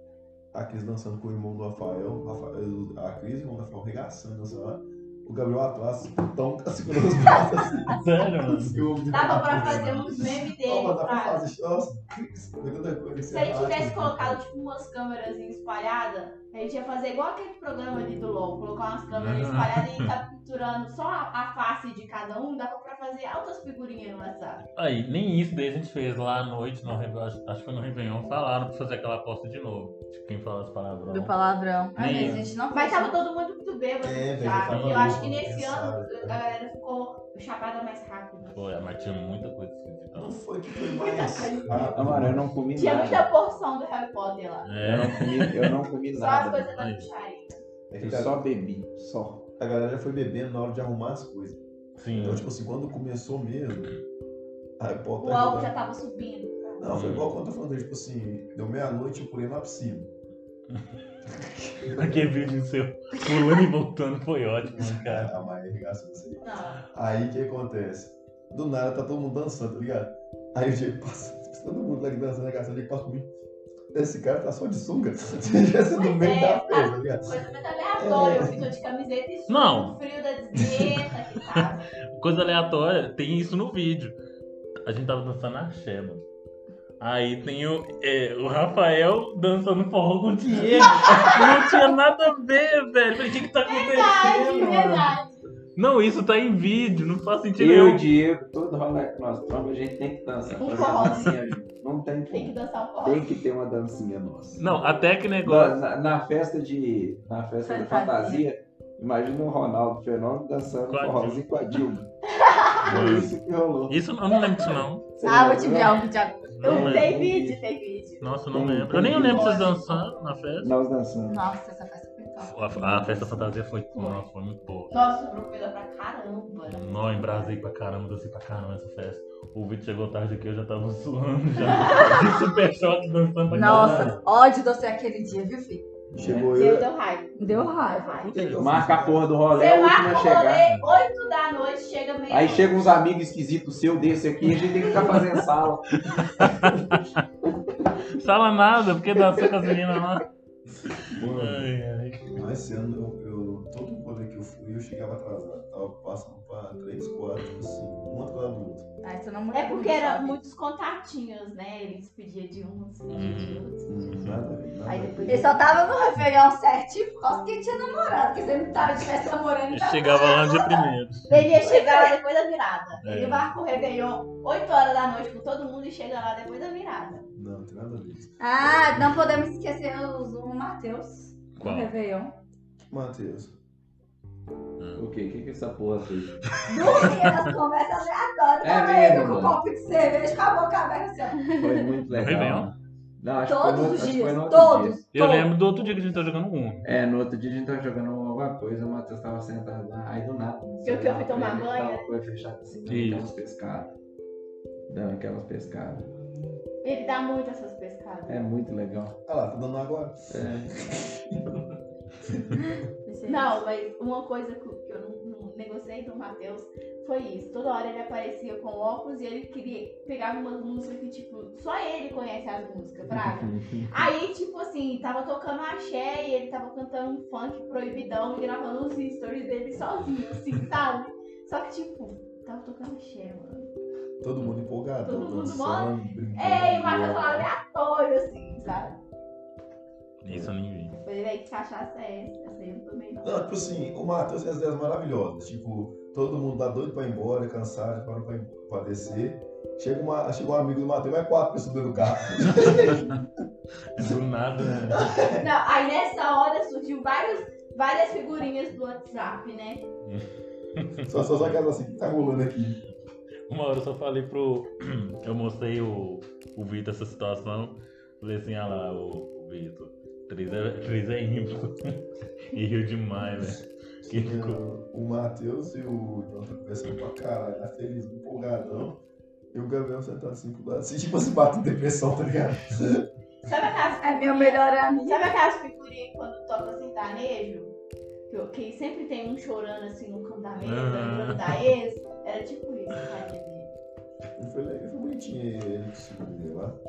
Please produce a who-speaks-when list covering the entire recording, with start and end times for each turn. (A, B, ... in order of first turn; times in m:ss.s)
0:00.5-0:14.4 A
0:07.9-0:10.4 B
0:09.1-0:11.4 C
0:13.2-0:24.6 C
0:19.1-0:20.1 B
0:24.8-0:31.4 B
0:31.1-0:33.2 D
0:32.0-0:32.5 B
0:32.7-0:38.6 C
0:34.0-0:36.4 A
0:34.6-0:35.2 B
0:38.5-0:40.4 B
0:40.1-0:42.4 A
0:40.8-0:44.7 C
0:41.9-0:43.3 E
0:44.6-0:45.7 B
0:44.8-0:46.7 E
0:46.1-0:47.6 C
0:46.8-0:47.1 B
0:47.9-0:48.4 A
0:48.0-0:49.5 E
0:49.6-0:51.6 A
0:52.0-0:52.5 B
0:52.1-0:54.0 A
0:54.8-0:55.7 A
0:55.2-0:56.9 C
0:56.8-1:00.1 A
0:56.9-0:57.3 B
1:01.8-1:02.3 A
1:01.8-1:05.3 B
1:04.8-1:13.3 A
1:06.4-1:06.8 C
1:13.9-1:17.4 A
1:15.9-1:21.8 C
1:18.0-1:18.6 A
1:19.5-1:20.0 B
1:21.5-1:24.2 B
1:24.8-1:26.2 B
1:27.0-1:35.2 B
1:30.9-1:31.4 C
1:33.6-1:35.4 C
1:35.8-1:38.0 B
1:37.6-1:44.7 E
1:40.6-1:41.4 C
1:42.3-1:43.4 C
1:44.6-1:45.8 B
1:45.4-1:52.1 E
1:47.6-1:48.4 D
1:50.9-1:51.5 B
1:52.3-1:52.9 C
1:52.8-1:54.0 E
1:52.8-1:53.3 B
1:52.9-1:53.3 A
1:53.9-1:55.0 B
1:55.2-1:56.0 E
1:55.2-1:56.6 D
1:56.6-1:57.2 B
1:56.6-1:57.6 E
1:56.6-1:58.3 C
1:58.2-2:00.7 B
1:58.5-1:59.7 E
1:59.1-2:00.0 C
2:00.6-2:01.5 E
2:01.3-2:03.5 D
2:02.4-2:05.0 B
2:04.0-2:04.2 C
2:04.9-2:07.6 C
2:06.7-2:14.2 B
2:11.7-2:12.1 C
2:12.0-2:12.3 D
2:13.5-2:15.8 D
2:13.6-2:14.1 A
2:16.1-2:16.9 A
2:16.2-2:16.6 E
2:16.5-2:18.5 C
2:17.4-2:18.2 D
2:18.2-2:18.6 B
2:18.3-2:19.3 A
2:18.6-2:20.7 E
2:19.5-2:22.9 C
2:22.3-2:26.4 E
2:26.0-2:27.1 B
2:28.1-2:30.3 B
2:30.9-2:32.4 B
2:31.0-2:31.7 A
2:32.3-2:38.9 A
2:39.0-2:40.4 D
2:39.5-2:44.1 C
2:43.1-2:44.4 B
2:43.9-2:45.6 A
2:44.8-2:45.5 C
2:45.3-2:50.8 D
2:49.7-2:51.3 B
2:51.3-2:57.3 C
2:51.6-2:52.1 D
2:53.0-2:53.5 B
2:57.3-2:59.2 A
2:58.4-3:02.3 D
3:01.6-3:01.9 B
3:02.9-3:03.5 A
3:04.8-3:05.0 B
3:05.0-3:06.4 E
3:06.7-3:11.8 D
3:07.1-3:07.4 B
3:08.6-3:09.6 E
3:11.5-3:15.0 E
3:12.1-3:12.7 B
3:13.5-3:15.5 D
3:15.2-3:16.9 B
3:16.8-3:23.9 E
3:20.8-3:22.1 C
3:22.9-3:23.3 B
3:24.9-3:26.2 E
3:26.8-3:28.5 C
3:28.3-3:29.2 E
3:29.3-3:31.6 A
3:30.3-3:31.0 E
3:32.2-3:32.6 A
3:33.1-3:33.4 D
3:33.2-3:53.7 C
3:43.1-3:44.0 E
3:54.2-3:57.5 A
3:55.0-3:59.0 C
4:00.2-4:01.0 B
4:01.0-4:03.4 C
4:03.2-4:13.3 A
4:12.5-4:13.2 B
4:13.9-4:15.1 B
4:14.0-4:15.5 A
4:15.4-4:19.9 C
4:20.1-4:21.6 B
4:21.1-4:22.8 A
4:23.5-4:34.6 B
4:34.1-4:39.0 A
4:39.5-4:43.1 A
4:43.4-4:47.7 C
4:44.0-4:45.3 D
4:48.3-4:53.7 C
4:50.6-4:51.7 B
4:54.4-4:56.8 A